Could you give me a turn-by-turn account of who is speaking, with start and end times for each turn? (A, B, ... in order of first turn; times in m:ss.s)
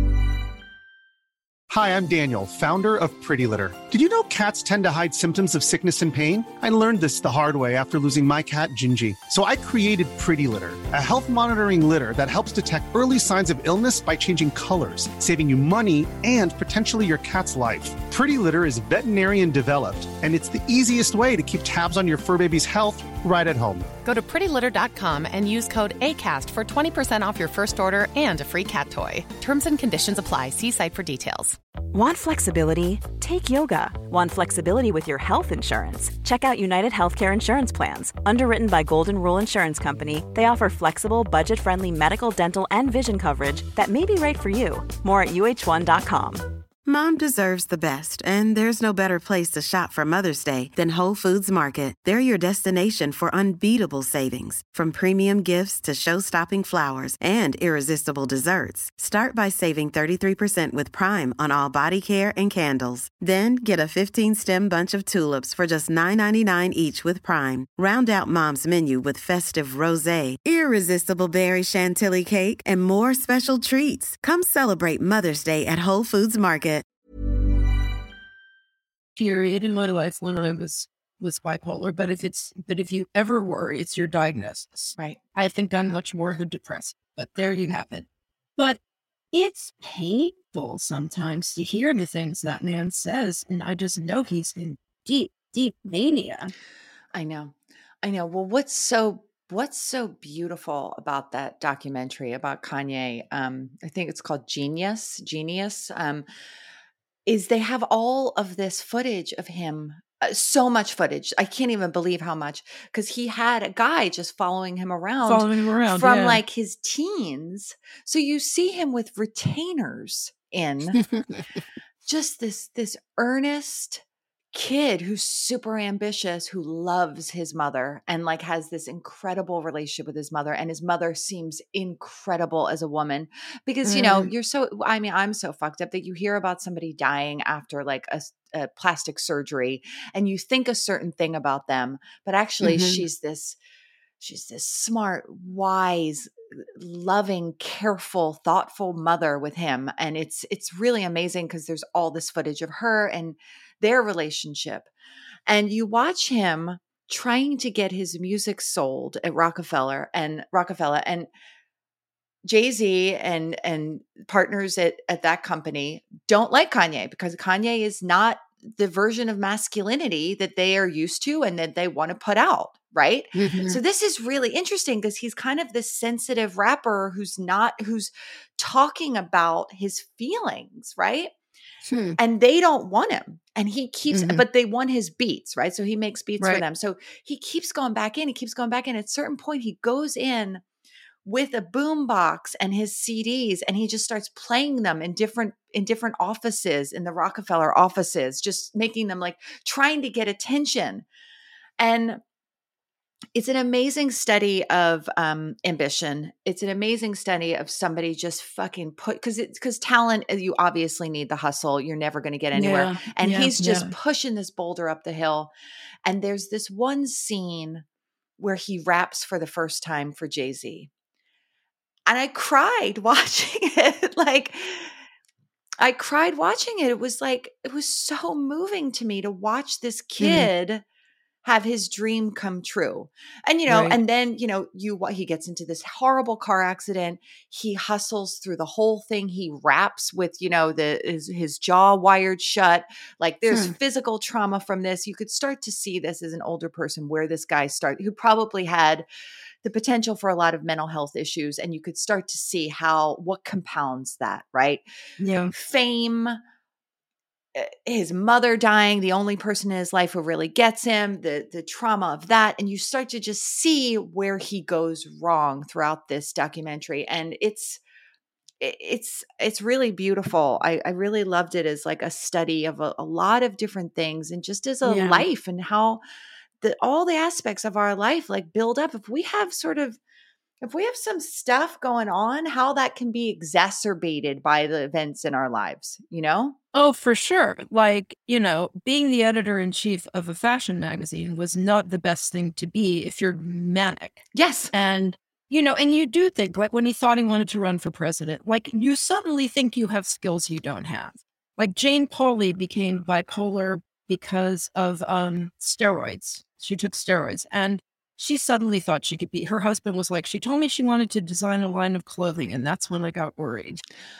0:01.7-0:24.0 A
0:24.0-0:31.6 B
0:31.9-0:46.4 C
0:46.8-1:16.8 D
1:19.2-1:28.8 E
1:29.3-1:36.5 E
1:37.1-1:46.2 F
1:47.2-2:01.0 F
1:55.2-1:56.4 E
2:02.0-2:04.0 F
2:04.5-2:23.6 F
2:13.8-2:14.3 E
2:22.6-2:23.0 E
2:24.2-2:34.9 F
2:35.5-2:41.3 F
2:42.4-3:01.3 F
2:53.3-2:53.8 E
3:01.8-3:02.2 E
3:02.2-3:10.6 F
3:04.1-3:04.4 E
3:11.2-3:21.0 F
3:21.8-3:22.2 F
3:23.3-3:35.5 F
3:32.5-3:33.9 E
3:36.0-3:37.8 F
3:38.4-3:40.9 F
3:42.0-3:44.9 F
3:45.8-3:50.8 F
3:50.2-3:50.5 E
3:51.4-4:09.0 F
3:53.7-3:54.0 E
4:03.5-4:03.7 E
4:09.6-4:14.8 F
4:15.2-4:15.5 E
4:15.5-4:16.4 F
4:17.5-4:27.8 F
4:28.6-4:36.0 F
4:34.8-4:35.2 E
4:36.6-4:40.0 F
4:40.6-4:46.6 F
4:46.7-5:13.8 E
4:54.3-4:54.7 F